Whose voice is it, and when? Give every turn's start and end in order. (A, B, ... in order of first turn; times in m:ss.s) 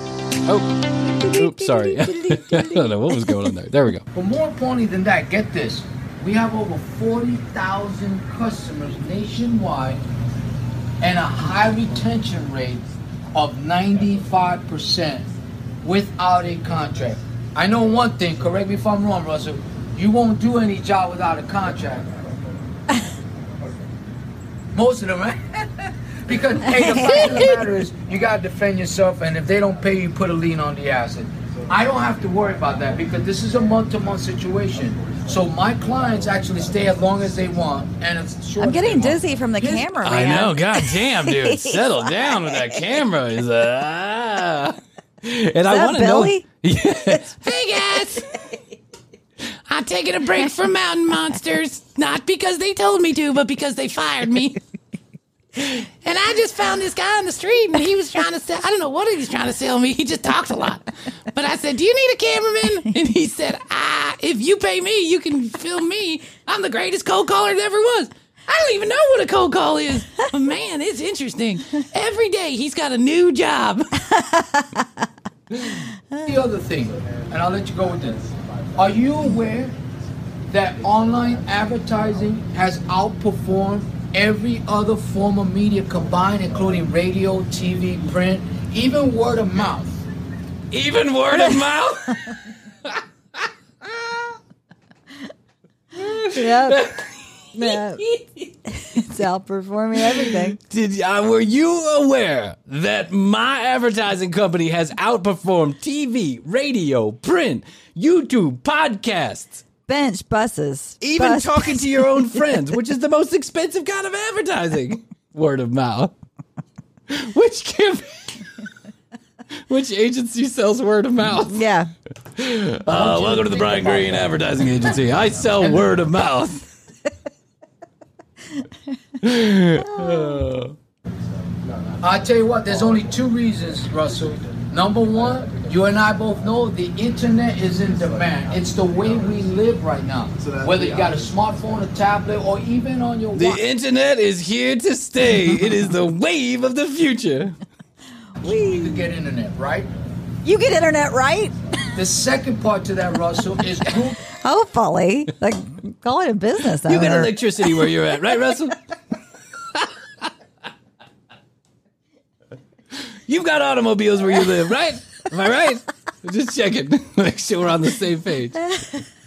0:00.4-0:04.0 A
0:01.2-0:03.4 B
0:04.1-0:10.0 C
0:11.0-0:15.3 C
0:15.8-0:22.1 C
0:24.7-0:25.6 C
0:26.2-0:39.8 C
0:26.8-0:27.5 B
0:38.6-0:41.8 B
0:40.0-0:48.3 A
0:45.7-0:46.4 B
0:49.7-0:54.6 A
0:55.6-1:13.9 A
1:14.1-1:14.8 B
1:15.5-1:15.8 A
1:16.2-1:18.2 C
1:18.8-1:19.7 C
1:20.5-1:29.9 C
1:30.7-1:34.3 A
1:36.0-1:38.4 A
1:36.3-1:36.8 B
1:37.6-1:38.0 B
1:38.7-1:40.6 B
1:40.0-1:49.6 A
1:49.9-1:52.5 B
1:51.0-1:56.1 A
1:57.1-1:58.4 A
1:59.7-2:01.6 A
2:01.4-2:01.9 B
2:02.3-2:06.6 A
2:02.9-2:03.8 B
2:09.2-2:10.7 A
2:10.0-2:10.4 B
2:12.0-2:23.6 C
2:23.3-2:27.6 A
2:28.4-2:29.1 B
2:28.4-2:29.9 C
2:30.4-2:31.5 B
2:31.9-2:34.2 C
2:34.3-2:37.3 B
2:36.8-2:38.8 A
2:39.7-2:40.2 A
2:43.3-2:48.7 A
2:48.6-2:49.0 B